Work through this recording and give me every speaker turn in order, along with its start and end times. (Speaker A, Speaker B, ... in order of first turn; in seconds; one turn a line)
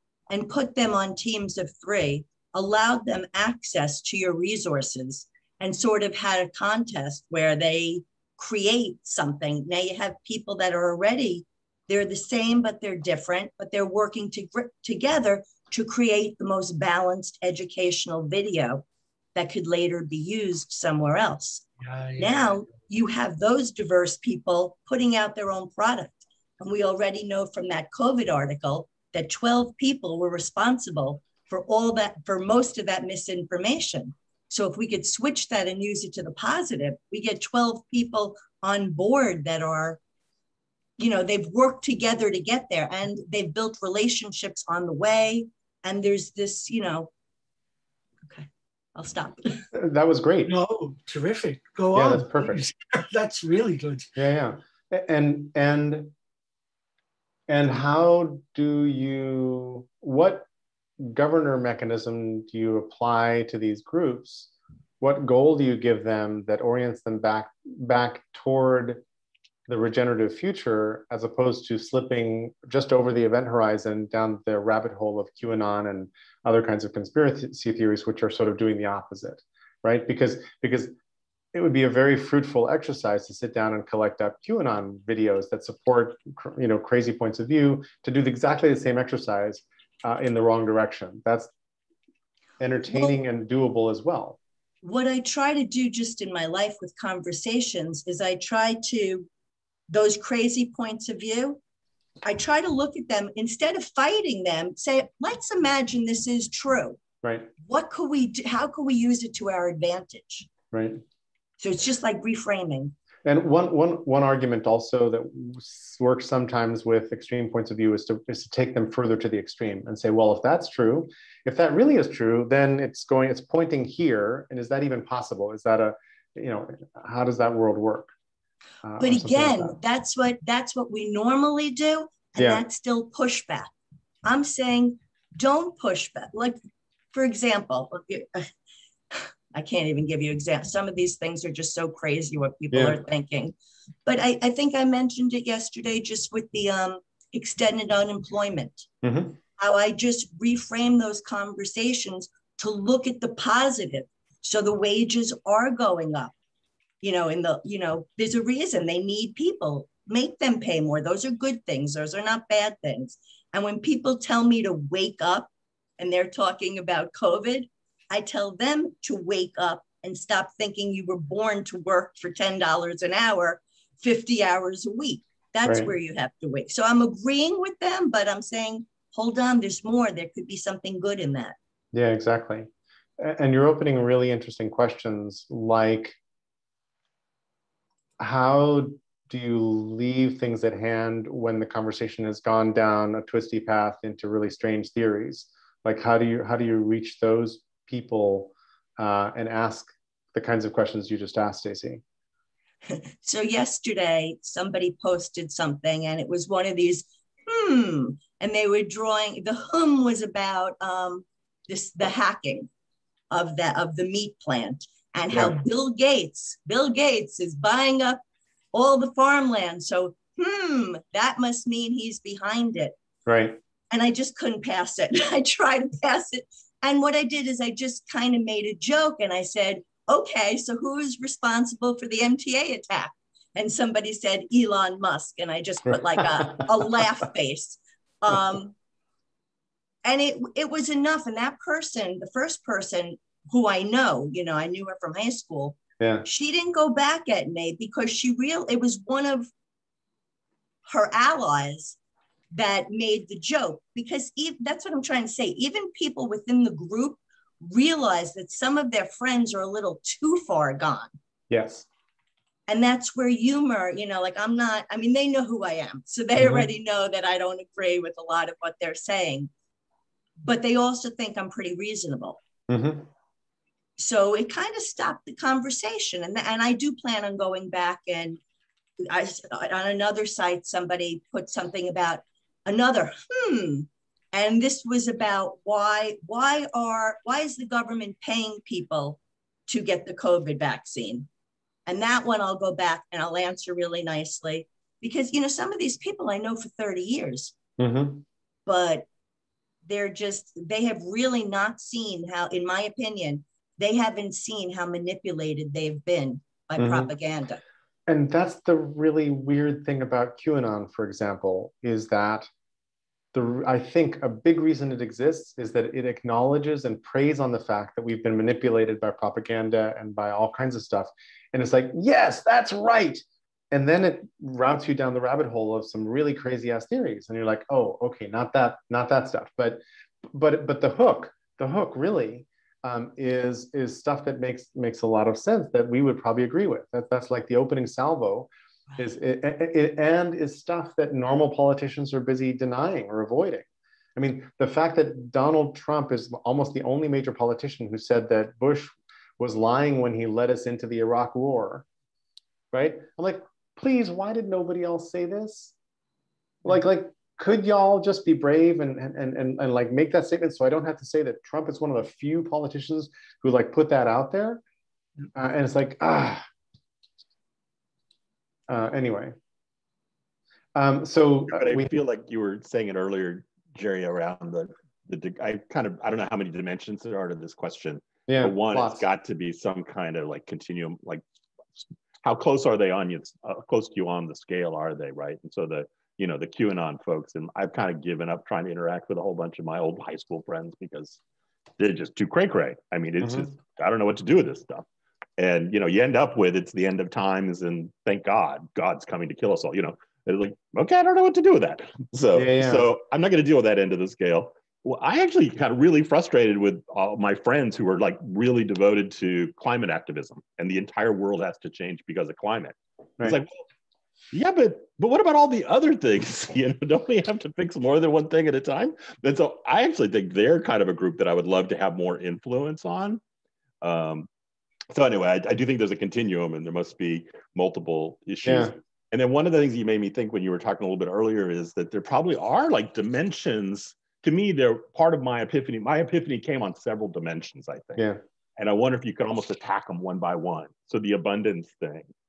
Speaker A: 0.3-21.7
Speaker B: 21.8-22.6
Speaker A: 22.2-40.0
Speaker A: 41.0-47.1
Speaker A: 48.2-49.7
Speaker C: 49.7-50.5
Speaker B: 50.5-54.1
Speaker C: 51.9-52.6
Speaker C: 54.2-56.1
Speaker C: 57.5-60.5
Speaker C: 61.0-64.5
Speaker C: 65.0-69.0
Speaker C: 69.7-80.9
Speaker C: 81.5-91.5
Speaker C: 92.6-94.4
Speaker A: 94.8-99.3
Speaker A: 99.9-101.6
Speaker A: 102.2-107.0
Speaker C: 107.2-107.5
Speaker A: 107.6-110.5
Speaker C: 110.7-111.0
Speaker A: 111.6-113.0
Speaker C: 113.2-128.1
Speaker C: 128.8-129.8
Speaker A: 129.0-133.7
Speaker C: 132.4-132.6
Speaker A: 134.2-136.6
Speaker A: 137.1-138.5
Speaker A: 139.1-148.9
Speaker C: 142.7-143.0
Speaker C: 149.0-149.4
Speaker A: 149.6-156.3
Speaker A: 157.0-181.6
Speaker C: 175.7-175.9
Speaker C: 181.9-182.7
Speaker C: 183.2-186.2
Speaker C: 188.2-202.0
Speaker A: 202.9-212.7
Speaker A: 213.3-218.2
Speaker C: 215.3-215.6
Speaker A: 218.7-222.9
Speaker C: 223.3-223.6
Speaker A: 223.9-238.7
Speaker A: 240.0-249.5
Speaker C: 246.0-246.3
Speaker A: 250.9-252.0
Speaker A: 252.5-261.1
Speaker C: 261.5-261.9
Speaker A: 262.7-269.5
Speaker C: 266.4-266.7
Speaker A: 270.4-272.4
Speaker C: 272.7-273.1
Speaker A: 274.0-278.4
Speaker A: 279.0-291.3
Speaker A: 291.9-297.6
Speaker C: 297.8-298.2
Speaker A: 298.7-299.1
Speaker A: 299.9-307.6
Speaker C: 306.8-307.1
Speaker C: 308.1-312.5
Speaker C: 313.3-351.9
Speaker C: 352.7-355.7
Speaker C: 356.6-364.6
Speaker C: 365.3-366.4
Speaker C: 368.7-369.4
Speaker C: 370.8-372.0
Speaker D: 371.5-381.2
Speaker C: 378.3-379.1
Speaker D: 381.8-391.2
Speaker D: 391.8-394.9
Speaker C: 393.2-393.5
Speaker D: 395.4-413.6
Speaker C: 402.3-402.9
Speaker D: 414.3-423.2
Speaker D: 423.8-424.3
Speaker D: 424.9-438.0
Speaker C: 428.4-428.7
Speaker D: 438.6-442.1